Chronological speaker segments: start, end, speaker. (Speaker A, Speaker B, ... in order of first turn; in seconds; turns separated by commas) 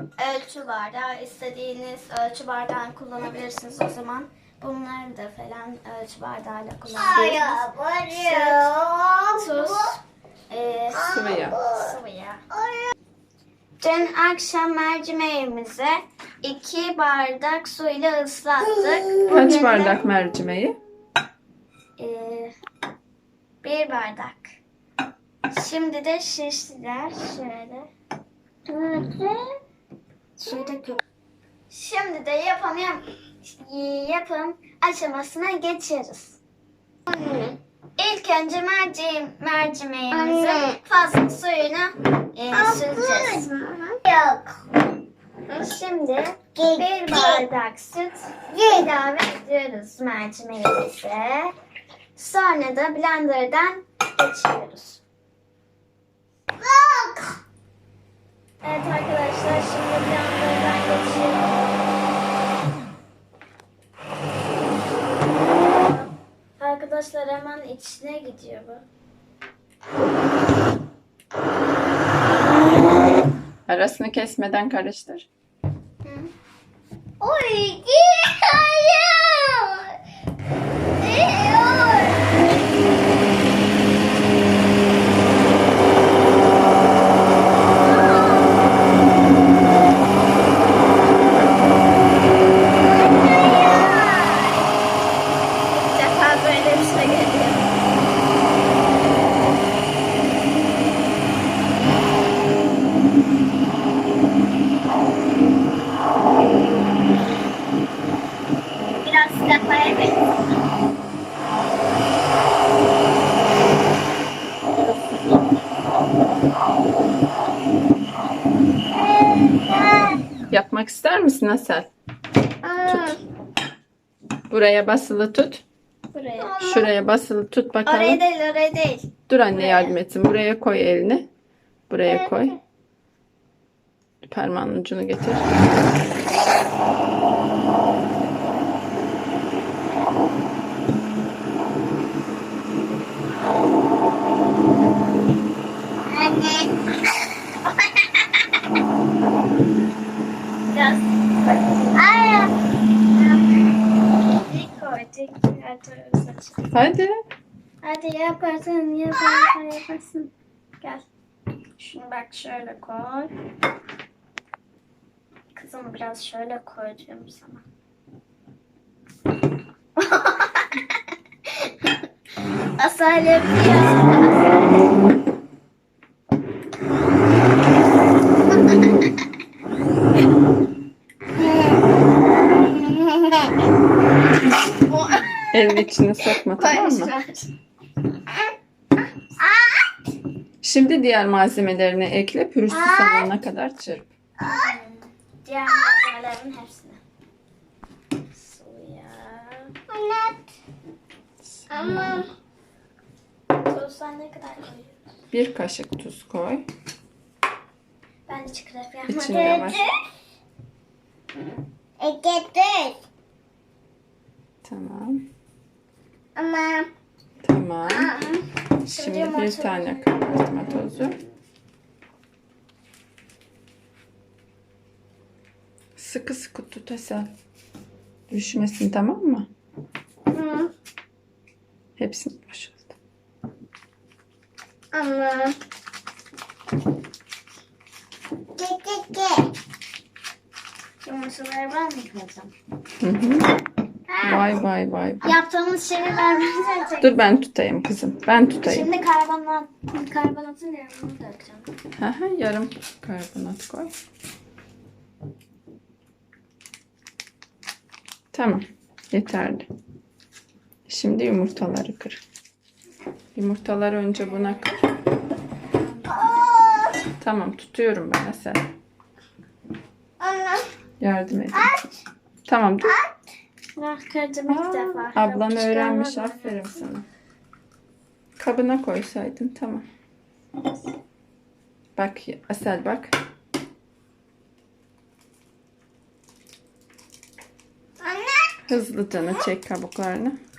Speaker A: 0.2-7.6, Speaker B: 7.0-10.0, Speaker C: 7.1-7.5, Speaker A: 8.1-8.7, Speaker A: 9.4-10.0, Speaker A: 10.5-12.4, Speaker B: 10.9-12.0, Speaker C: 11.1-11.6, Speaker B: 12.5-12.9, Speaker A: 13.8-20.2, Speaker B: 18.7-19.7, Speaker C: 19.3-20.8, Speaker A: 22.0-22.5, Speaker A: 23.6-24.6, Speaker A: 25.5-27.9, Speaker B: 28.7-29.4, Speaker A: 30.4-31.0, Speaker A: 31.7-36.4, Speaker B: 37.1-37.6, Speaker A: 38.0-43.5, Speaker B: 40.1-40.8, Speaker B: 42.5-44.6, Speaker A: 45.5-51.5, Speaker B: 46.6-47.4, Speaker B: 48.5-48.9, Speaker A: 52.2-55.0, Speaker B: 56.6-57.4, Speaker A: 58.6-61.8, Speaker A: 65.5-68.8, Speaker C: 73.7-75.3, Speaker A: 76.0-76.3, Speaker B: 77.2-80.0, Speaker B: 81.0-82.3, Speaker B: 87.9-88.5, Speaker B: 93.0-94.2, Speaker A: 93.2-94.4, Speaker A: 95.7-97.7, Speaker A: 109.1-110.1, Speaker B: 119.0-120.2, Speaker C: 120.5-121.9, Speaker B: 122.6-123.2, Speaker C: 122.8-123.2, Speaker C: 124.5-125.6, Speaker A: 126.1-126.5, Speaker B: 126.4-126.9, Speaker C: 126.6-128.2, Speaker A: 127.8-129.9, Speaker C: 129.3-131.3, Speaker C: 131.9-132.6, Speaker B: 132.1-132.6, Speaker C: 134.2-135.7, Speaker B: 146.1-146.7, Speaker A: 150.7-152.1, Speaker B: 151.9-152.5, Speaker A: 154.5-156.7, Speaker C: 156.7-157.1, Speaker A: 157.8-161.1, Speaker A: 161.8-163.3, Speaker A: 165.5-167.6, Speaker A: 170.0-170.7, Speaker A: 172.8-174.6, Speaker B: 182.8-183.5, Speaker B: 184.9-185.8, Speaker C: 185.5-187.1, Speaker A: 186.6-187.5, Speaker B: 189.4-189.9, Speaker C: 190.6-194.1, Speaker B: 192.7-193.3, Speaker B: 194.4-194.7, Speaker A: 194.4-197.0, Speaker A: 198.3-199.7, Speaker B: 199.9-200.4, Speaker C: 201.4-202.2, Speaker B: 201.7-202.3, Speaker A: 203.6-205.0, Speaker C: 205.3-206.7, Speaker A: 208.3-209.8, Speaker C: 209.1-209.8, Speaker B: 209.3-209.9, Speaker B: 212.0-213.0, Speaker C: 214.6-215.2, Speaker B: 216.4-216.9, Speaker C: 217.4-218.1, Speaker B: 217.9-218.4, Speaker A: 218.8-221.2, Speaker C: 218.9-221.2, Speaker C: 226.0-227.3, Speaker C: 228.3-229.5, Speaker B: 230.3-230.7, Speaker C: 232.0-232.9, Speaker B: 234.9-235.6, Speaker B: 238.6-239.5, Speaker A: 241.0-242.5, Speaker C: 243.0-243.5, Speaker C: 244.2-245.4, Speaker A: 245.2-247.1, Speaker B: 246.1-246.8, Speaker C: 247.0-248.9, Speaker A: 248.6-251.7, Speaker C: 252.0-253.9, Speaker C: 258.3-259.7, Speaker C: 260.9-262.2, Speaker C: 263.4-264.8, Speaker A: 264.2-264.8, Speaker A: 265.7-266.5, Speaker B: 266.1-267.0, Speaker C: 267.2-268.7, Speaker B: 270.2-270.7, Speaker C: 271.0-271.8, Speaker B: 271.5-271.9, Speaker C: 272.5-273.0, Speaker B: 272.8-273.2, Speaker A: 273.8-276.9, Speaker C: 274.5-277.1, Speaker C: 278.4-279.9, Speaker C: 282.0-283.1, Speaker B: 288.0-288.6, Speaker C: 288.7-290.4